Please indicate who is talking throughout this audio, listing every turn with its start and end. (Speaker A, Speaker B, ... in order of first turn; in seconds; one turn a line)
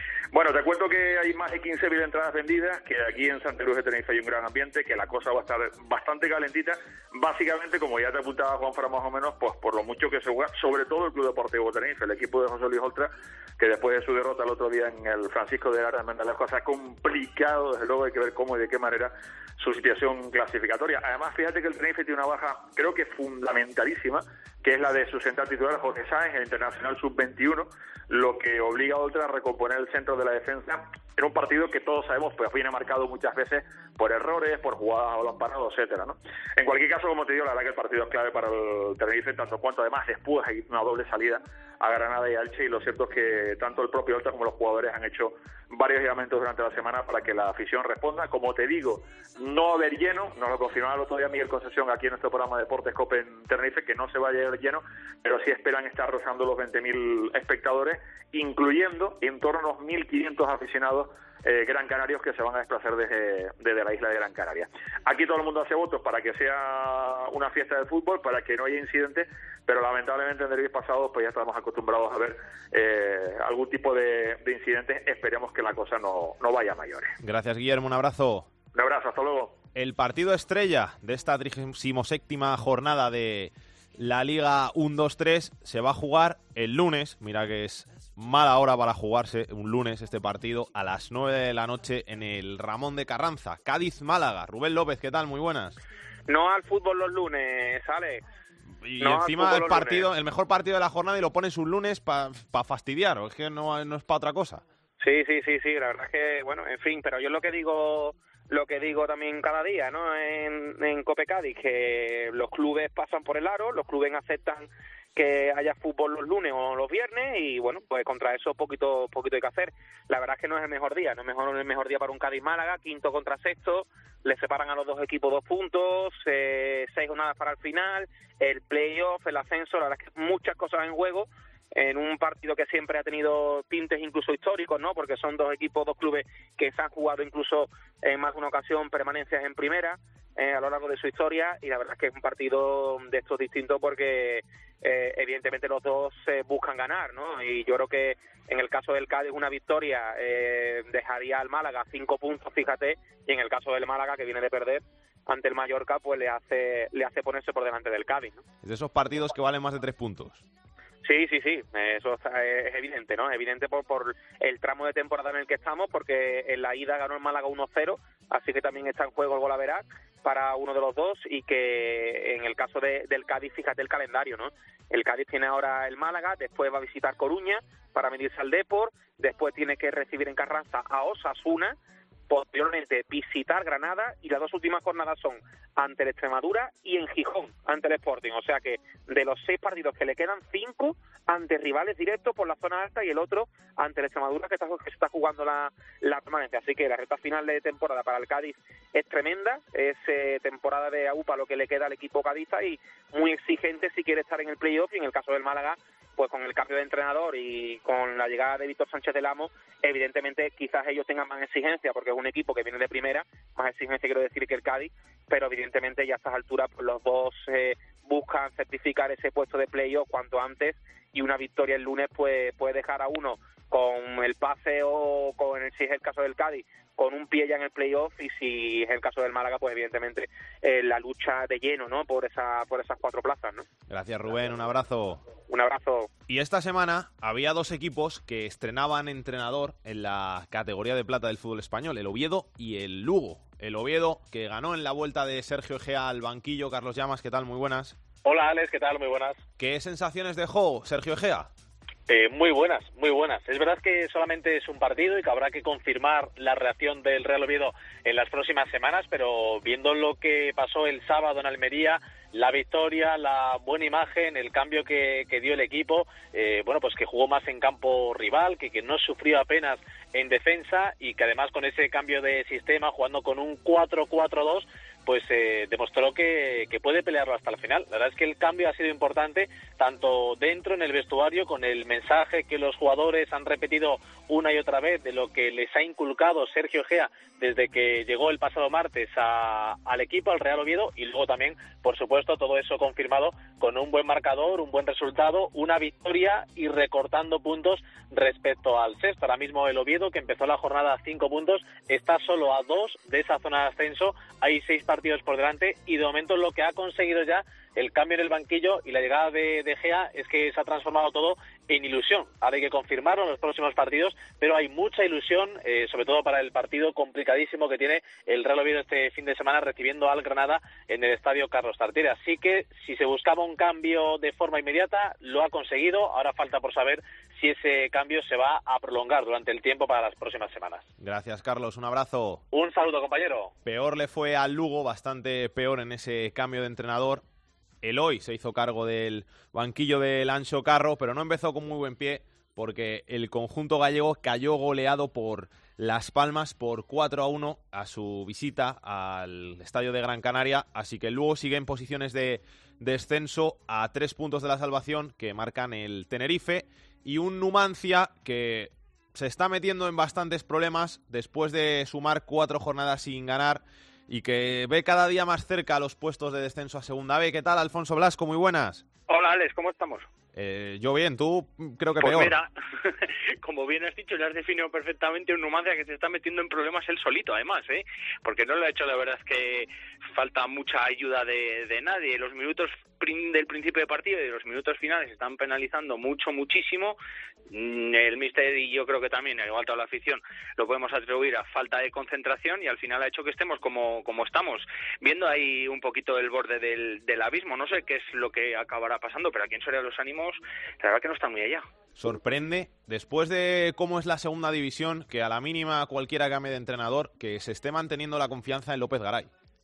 Speaker A: 0.3-77.2
Speaker B: 77.2-78.5
Speaker A: 78.7-79.6
Speaker B: 79.7-95.8
Speaker C: 96.3-98.2
Speaker B: 98.8-104.6
Speaker C: 99.0-100.1
Speaker C: 105.0-158.4
Speaker B: 158.6-160.4
Speaker C: 161.0-181.8
Speaker C: 182.3-233.6
Speaker B: 233.9-235.2
Speaker C: 235.5-236.1
Speaker B: 236.3-248.0
Speaker D: 248.2-249.4
Speaker B: 249.6-251.5
Speaker D: 252.1-330.8
Speaker B: 331.0-332.4
Speaker D: 332.5-333.5
Speaker B: 333.6-337.2
Speaker B: 337.8-368.8
Speaker E: 369.1-370.1
Speaker B: 370.3-372.4
Speaker E: 372.0-387.0
Speaker E: 387.5-401.7
Speaker B: 401.9-409.3